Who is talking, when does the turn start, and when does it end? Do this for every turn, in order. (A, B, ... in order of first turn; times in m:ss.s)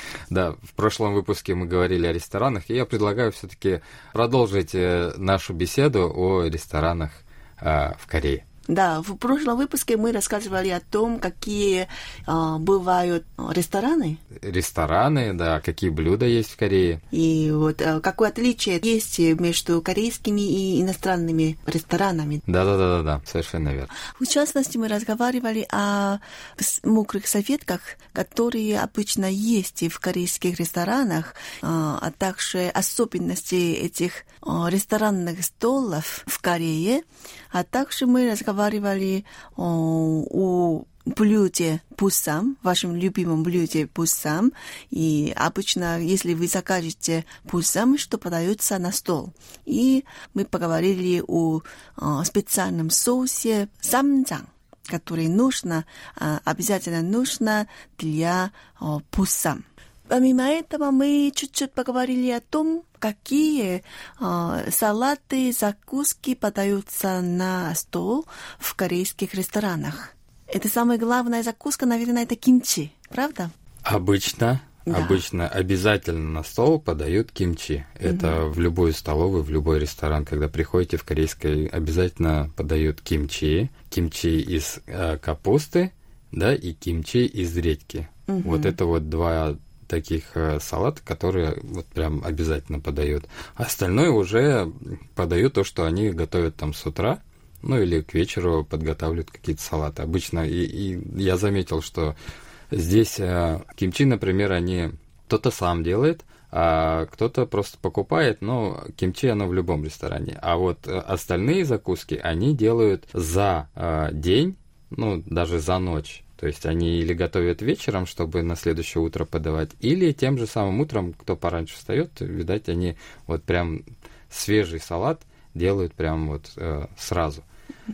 0:00.3-0:08.4 A
0:08.7-0:14.2 B
0:14.4-0:17.0 A
0:17.1-0:22.4 B
0:22.5-0:23.9 A
0:24.2-1:13.5 B
1:13.8-1:42.2 A
1:14.9-1:15.2 B
1:18.0-1:18.4 B
1:28.3-1:28.8 B
1:42.7-2:07.4 A